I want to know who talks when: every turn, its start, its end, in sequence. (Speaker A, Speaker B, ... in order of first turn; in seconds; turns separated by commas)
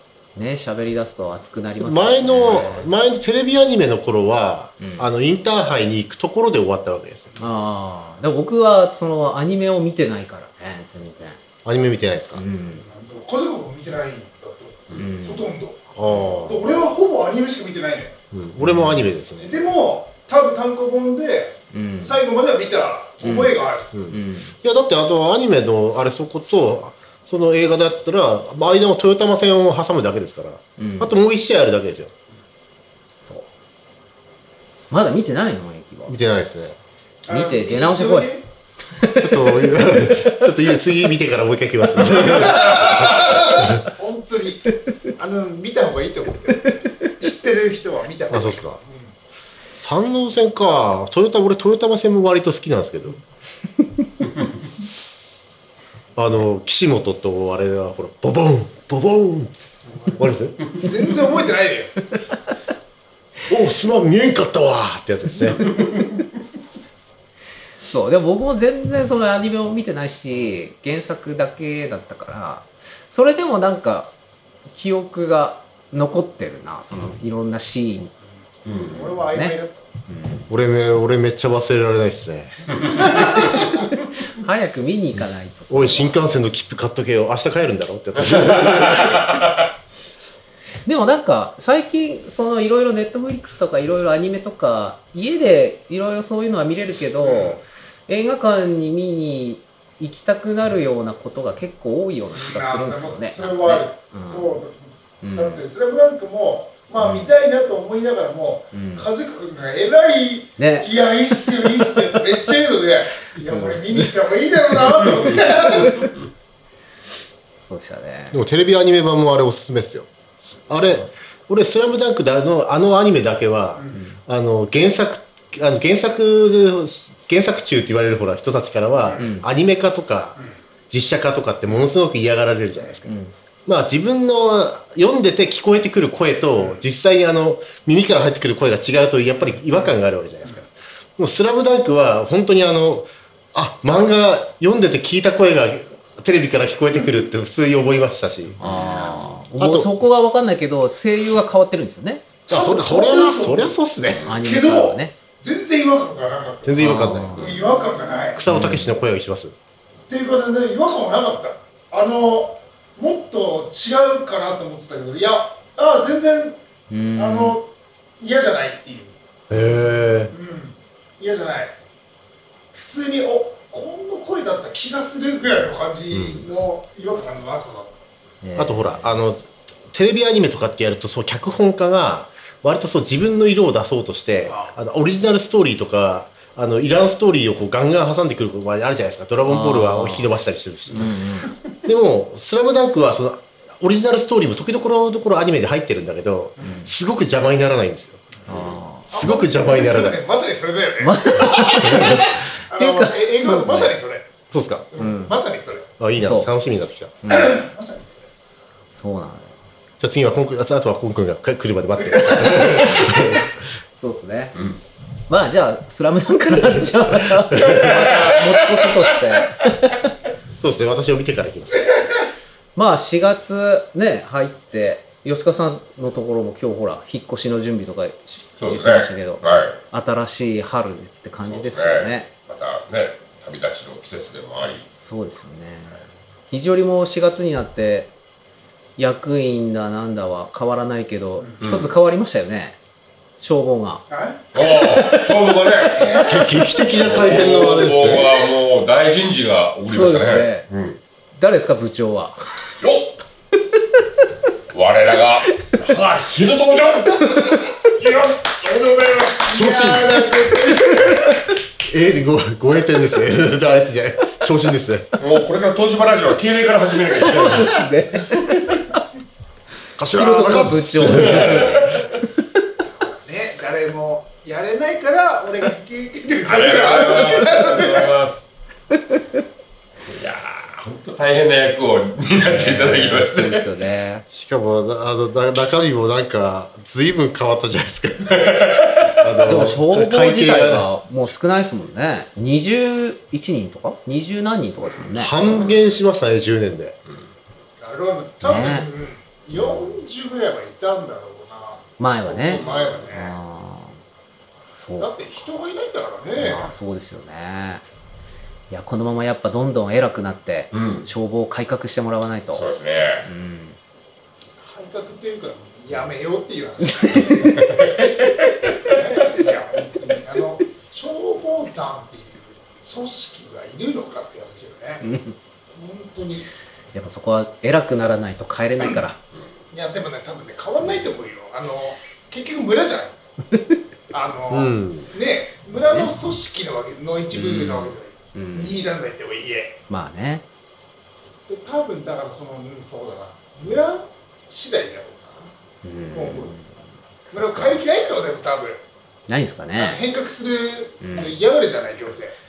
Speaker A: 0.3-2.9, Speaker B: 1.8-7.3, Speaker A: 4.8-5.1, Speaker A: 7.4-11.4, Speaker B: 11.6-12.4, Speaker A: 12.3-12.8, Speaker C: 12.7-15.9, Speaker A: 14.9-15.5, Speaker B: 15.9-16.6, Speaker C: 16.4-18.2, Speaker B: 18.3-19.6, Speaker A: 18.6-19.1, Speaker C: 19.4-23.9, Speaker A: 21.7-22.2, Speaker A: 23.2-23.5, Speaker B: 23.9-32.1, Speaker A: 24.1-24.5, Speaker A: 30.8-31.1, Speaker A: 33.2-33.5, Speaker A: 34.9-36.1, Speaker B: 36.1-36.8, Speaker C: 37.2-38.4, Speaker A: 37.3-38.3, Speaker A: 38.9-40.5, Speaker B: 39.1-43.8, Speaker C: 42.2-49.1, Speaker B: 48.3-48.8, Speaker B: 49.8-53.2, Speaker B: 56.1-59.5, Speaker C: 59.9-60.2, Speaker B: 60.2-60.6, Speaker C: 60.7-61.9, Speaker B: 63.5-65.7, Speaker A: 67.9-74.1, Speaker A: 74.7-78.1, Speaker D: 78.7-79.2, Speaker C: 78.9-79.8, Speaker A: 79.3-79.6, Speaker A: 80.1-80.5, Speaker B: 80.5-83.6, Speaker A: 83.2-86.2, Speaker B: 85.7-89.4, Speaker D: 88.9-89.5, Speaker A: 90.8-104.5, Speaker C: 97.2-97.6, Speaker C: 102.3-116.1, Speaker A: 105.2-105.6, Speaker A: 107.0-107.3, Speaker A: 108.7-109.1, Speaker A: 110.6-111.7, Speaker A: 113.5-114.8, Speaker A: 115.3-116.1, Speaker A: 117.6-118.4, Speaker B: 118.3-120.1, Speaker B: 120.7-130.4, Speaker A: 123.9-124.2, Speaker C: 129.0-129.3, Speaker A: 129.2-129.4, Speaker B: 130.9-133.1, Speaker A: 133.1-133.3, Speaker B: 133.7-148.6, Speaker C: 136.5-136.8, Speaker A: 148.6-152.2, Speaker D: 148.6-149.0, Speaker B: 149.6-149.9, Speaker C: 152.5-153.8, Speaker B: 152.5-154.2, Speaker A: 154.2-155.1, Speaker C: 154.3-158.4, Speaker B: 156.6-157.6, Speaker A: 156.8-157.6, Speaker B: 158.3-159.6, Speaker A: 158.5-158.9, Speaker C: 160.1-166.6, Speaker A: 166.9-167.6, Speaker C: 167.2-169.2, Speaker B: 169.5-170.3, Speaker C: 170.3-171.8, Speaker C: 172.7-177.9, Speaker B: 176.1-176.4, Speaker A: 178.4-179.2, Speaker B: 178.6-191.1, Speaker C: 184.4-184.7, Speaker A: 189.5-190.3, Speaker A: 190.9-191.6, Speaker B: 191.8-198.3, Speaker A: 196.6-196.9, Speaker A: 198.4-199.1, Speaker C: 198.4-204.3, Speaker B: 199.1-200.2, Speaker A: 201.0-203.9, Speaker B: 201.8-202.3, Speaker B: 204.5-204.9, Speaker C: 204.9-205.9, Speaker A: 204.9-205.3, Speaker B: 206.0-207.2, Speaker A: 206.2-206.5, Speaker A: 207.2-207.6, Speaker C: 207.3-208.2, Speaker A: 208.9-209.5, Speaker B: 210.0-213.6, Speaker A: 214.0-214.6, Speaker A: 215.3-220.1, Speaker B: 216.7-218.1, Speaker D: 217.7-218.8, Speaker B: 220.5-221.9, Speaker A: 222.8-232.3, Speaker D: 228.6-229.8, Speaker D: 231.5-234.9, Speaker A: 234.9-236.0, Speaker A: 236.5-238.1, Speaker A: 239.0-242.8, Speaker D: 241.6-241.9, Speaker A: 243.4-245.9, Speaker C: 244.1-244.4, Speaker D: 244.5-251.0, Speaker C: 245.9-246.6, Speaker B: 246.2-248.4, Speaker A: 249.8-250.7, Speaker A: 251.3-252.4, Speaker D: 252.8-253.2, Speaker D: 254.7-259.6, Speaker A: 257.3-257.6, Speaker C: 259.5-261.1, Speaker B: 259.5-261.3, Speaker B: 261.8-265.1, Speaker D: 265.2-267.8, Speaker A: 267.1-269.0, Speaker B: 270.0-272.0, Speaker A: 270.1-271.8, Speaker D: 271.0-272.1, Speaker C: 272.9-278.2, Speaker D: 276.4-278.4, Speaker D: 280.1-283.7, Speaker A: 282.4-284.2, Speaker B: 284.3-288.5, Speaker D: 288.2-289.4, Speaker B: 289.2-290.9, Speaker A: 289.4-295.7, Speaker C: 294.8-295.1, Speaker B: 295.1-297.0, Speaker C: 297.8-303.3, Speaker A: 298.4-298.9, Speaker A: 302.0-304.0, Speaker D: 302.5-303.1, Speaker A: 304.7-305.1, Speaker C: 305.0-306.7, Speaker A: 306.4-307.8, Speaker A: 308.7-312.6, Speaker D: 310.7-311.1, Speaker D: 312.5-313.3, Speaker A: 313.2-313.8, Speaker C: 314.6-317.8, Speaker A: 316.8-317.9, Speaker D: 317.6-318.5, Speaker C: 318.8-325.0, Speaker A: 325.0-325.4, Speaker C: 325.7-326.5, Speaker A: 326.9-329.2, Speaker C: 329.7-333.2, Speaker C: 334.1-339.8, Speaker B: 334.5-335.1, Speaker A: 337.3-338.9, Speaker A: 339.9-340.4, Speaker C: 341.5-345.5, Speaker A: 345.8-346.7, Speaker C: 346.1-346.5, Speaker A: 347.2-347.8, Speaker C: 347.3-348.8, Speaker A: 349.3-350.0, Speaker C: 349.8-352.3, Speaker A: 351.0-351.4